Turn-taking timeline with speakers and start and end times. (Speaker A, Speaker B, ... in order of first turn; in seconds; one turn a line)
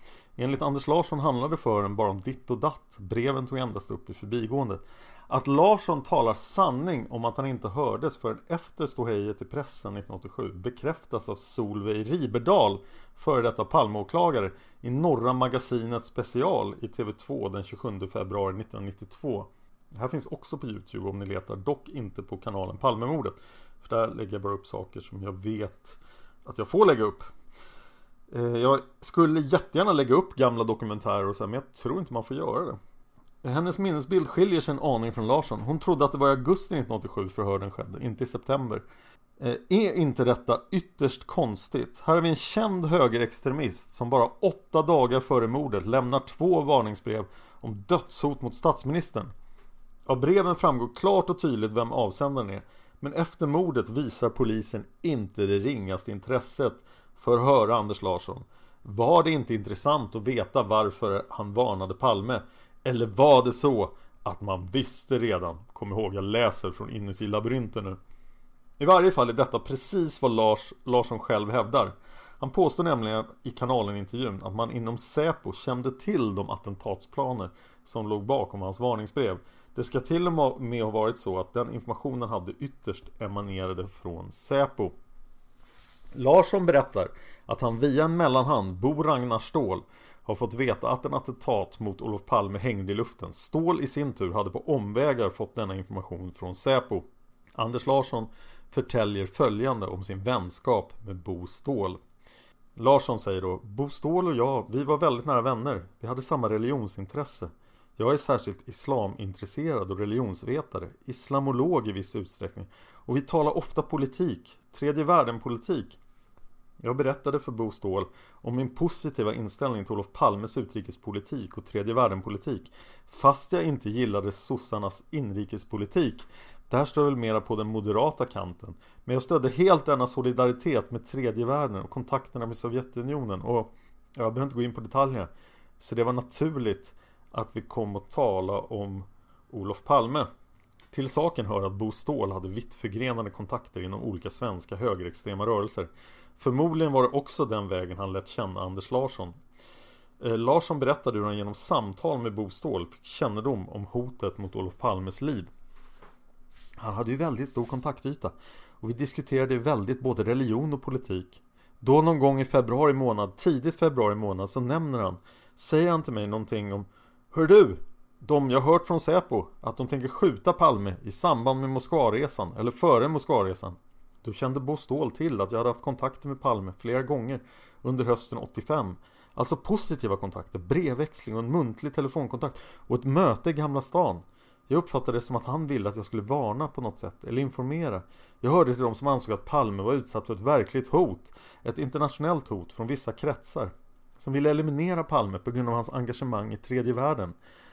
Speaker A: 0.4-27.3
Speaker A: 28.3-32.8
Speaker A: 33.4-38.8
Speaker A: 39.4-49.3
Speaker A: 50.1-68.0
Speaker A: 68.8-84.9
Speaker A: 86.2-102.0
Speaker A: 102.8-116.0
Speaker A: 116.8-140.3
Speaker A: 140.9-149.4
Speaker A: 150.2-155.5
Speaker A: 156.8-197.3